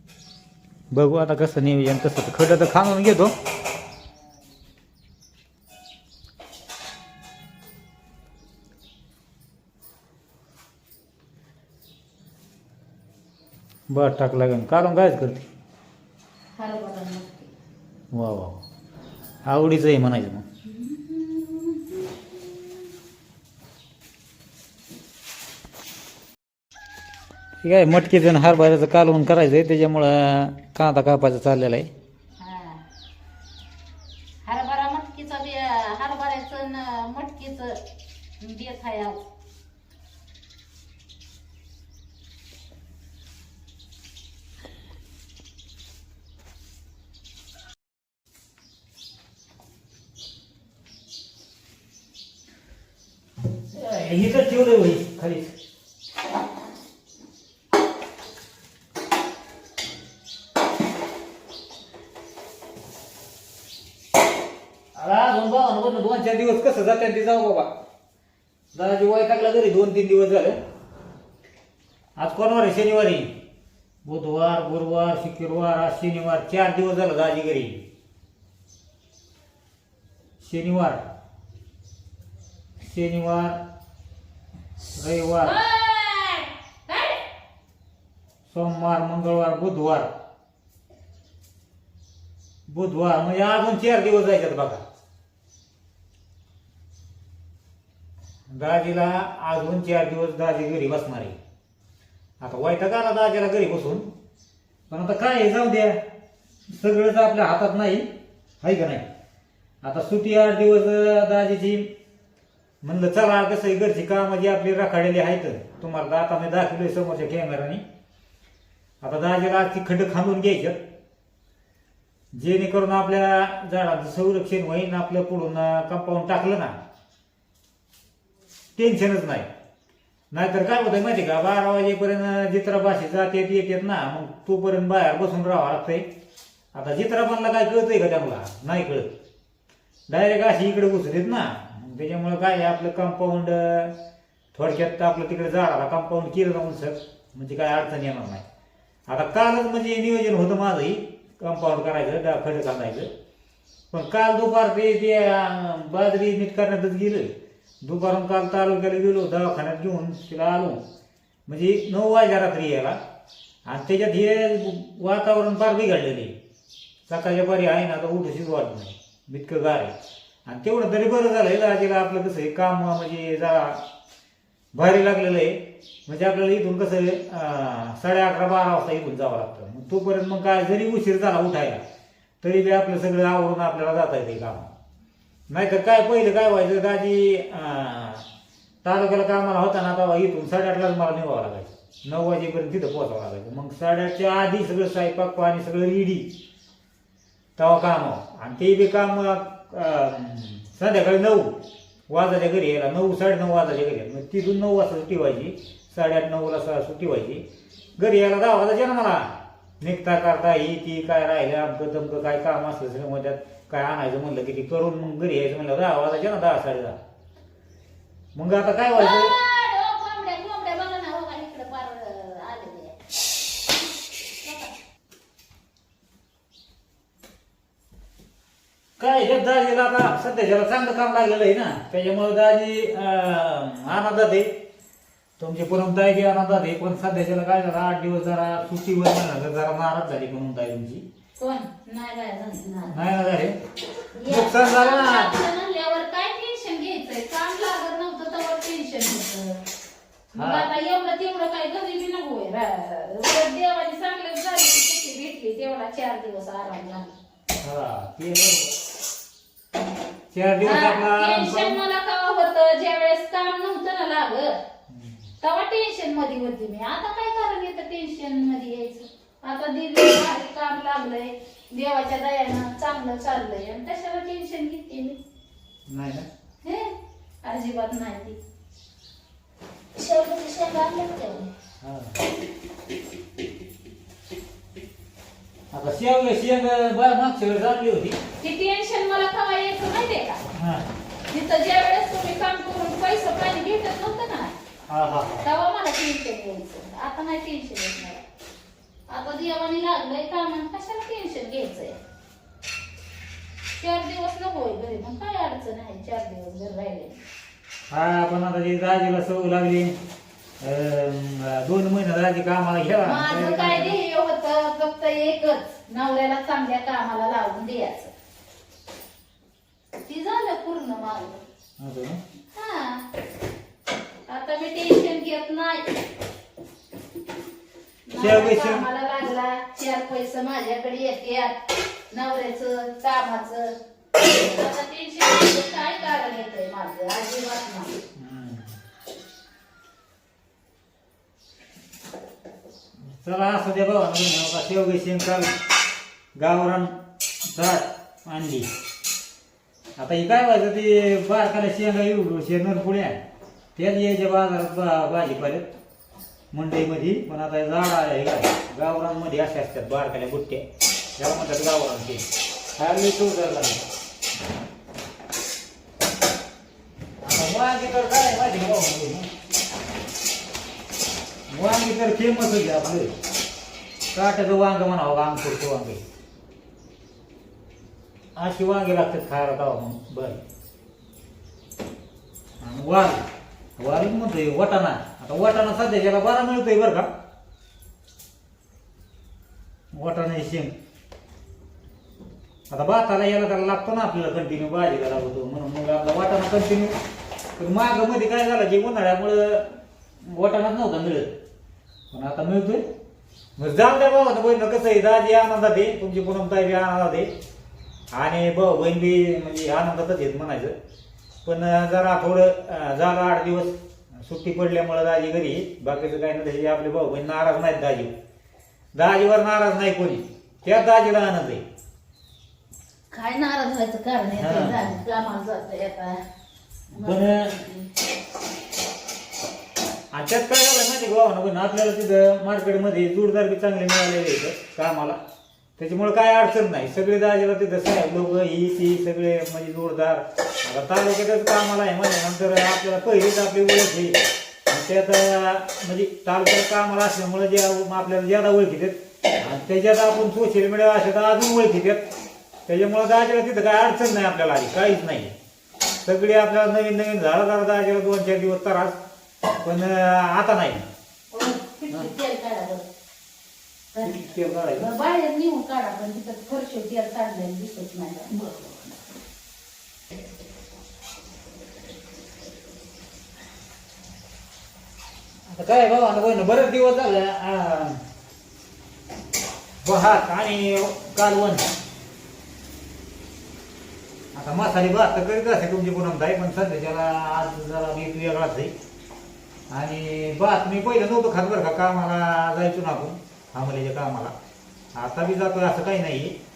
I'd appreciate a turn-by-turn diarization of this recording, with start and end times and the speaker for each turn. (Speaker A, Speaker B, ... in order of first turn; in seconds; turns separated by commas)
Speaker A: 0.9-3.3, Speaker A: 13.9-15.5, Speaker B: 16.6-17.5, Speaker A: 18.1-18.6, Speaker A: 19.4-20.4, Speaker B: 20.6-22.7, Speaker A: 27.6-31.9, Speaker B: 32.4-32.8, Speaker B: 34.4-37.8, Speaker B: 38.4-39.2, Speaker A: 53.7-55.5, Speaker A: 65.0-67.7, Speaker A: 68.7-70.5, Speaker A: 72.2-73.3, Speaker A: 74.0-77.8, Speaker A: 80.4-81.0, Speaker A: 82.8-83.6, Speaker A: 84.9-85.5, Speaker B: 85.4-87.3, Speaker A: 88.5-90.1, Speaker A: 92.7-94.8, Speaker A: 98.5-101.4, Speaker A: 102.4-104.1, Speaker A: 104.9-106.0, Speaker A: 106.7-108.1, Speaker A: 108.6-109.0, Speaker A: 109.8-111.9, Speaker A: 112.8-117.8, Speaker A: 119.0-120.8, Speaker A: 122.3-126.8, Speaker A: 128.8-129.5, Speaker A: 130.3-136.1, Speaker A: 136.7-139.1, Speaker A: 140.1-143.9, Speaker A: 144.5-148.4, Speaker A: 149.1-153.1, Speaker A: 153.9-160.8, Speaker A: 161.5-163.0, Speaker A: 163.7-166.3, Speaker A: 167.1-169.9, Speaker A: 170.4-173.8, Speaker A: 174.7-181.8, Speaker A: 182.4-184.7, Speaker A: 185.5-188.2, Speaker A: 188.8-196.3, Speaker A: 197.6-207.4, Speaker A: 208.0-217.0, Speaker A: 218.3-219.3, Speaker B: 218.9-222.9, Speaker B: 224.4-224.7, Speaker A: 229.0-234.5, Speaker A: 235.4-241.0, Speaker B: 241.4-243.0, Speaker A: 242.9-243.6, Speaker B: 244.1-249.6, Speaker A: 244.3-245.4, Speaker B: 250.3-257.1, Speaker A: 250.3-250.7, Speaker A: 257.6-258.7, Speaker A: 260.3-261.8, Speaker B: 260.6-264.5, Speaker A: 264.9-265.2, Speaker B: 265.4-275.2, Speaker A: 275.9-276.3, Speaker B: 276.6-278.4, Speaker B: 279.9-281.5, Speaker A: 281.8-282.1, Speaker A: 285.7-288.2, Speaker B: 288.4-290.4, Speaker A: 290.5-290.8, Speaker B: 291.3-294.6, Speaker A: 294.9-295.5, Speaker B: 295.4-298.2, Speaker B: 299.1-302.0, Speaker B: 303.8-307.2, Speaker A: 307.9-309.9, Speaker A: 310.6-313.9, Speaker B: 313.0-318.1, Speaker B: 320.1-321.4, Speaker A: 321.8-322.2, Speaker B: 322.5-323.0, Speaker B: 324.3-325.9, Speaker B: 328.1-331.6, Speaker A: 328.2-328.8, Speaker B: 332.1-338.0, Speaker A: 338.1-338.8, Speaker A: 343.1-345.5, Speaker A: 346.4-346.9, Speaker A: 347.5-348.7, Speaker A: 350.0-353.2, Speaker A: 353.8-355.7, Speaker A: 356.5-360.7, Speaker A: 361.2-363.8, Speaker A: 367.2-369.3, Speaker A: 371.5-373.1, Speaker A: 374.1-376.0, Speaker A: 378.4-380.4, Speaker A: 382.6-383.2, Speaker A: 383.8-387.1, Speaker A: 389.9-390.7, Speaker A: 392.7-396.9, Speaker A: 397.6-401.3, Speaker A: 402.1-402.8, Speaker A: 403.6-407.3, Speaker A: 408.1-410.7, Speaker A: 411.4-418.1, Speaker A: 418.9-421.6, Speaker B: 423.1-426.2, Speaker A: 424.4-424.9, Speaker A: 426.9-427.5, Speaker B: 426.9-427.9, Speaker A: 430.1-435.2, Speaker A: 435.8-452.1, Speaker A: 452.7-455.3, Speaker A: 456.0-459.0, Speaker A: 459.6-460.9, Speaker B: 461.3-462.8, Speaker B: 463.9-464.2, Speaker A: 464.0-464.9, Speaker B: 464.7-468.4, Speaker A: 468.4-468.7, Speaker A: 475.5-478.0, Speaker A: 479.8-481.7, Speaker A: 484.3-488.7, Speaker A: 489.7-494.3, Speaker A: 494.9-496.4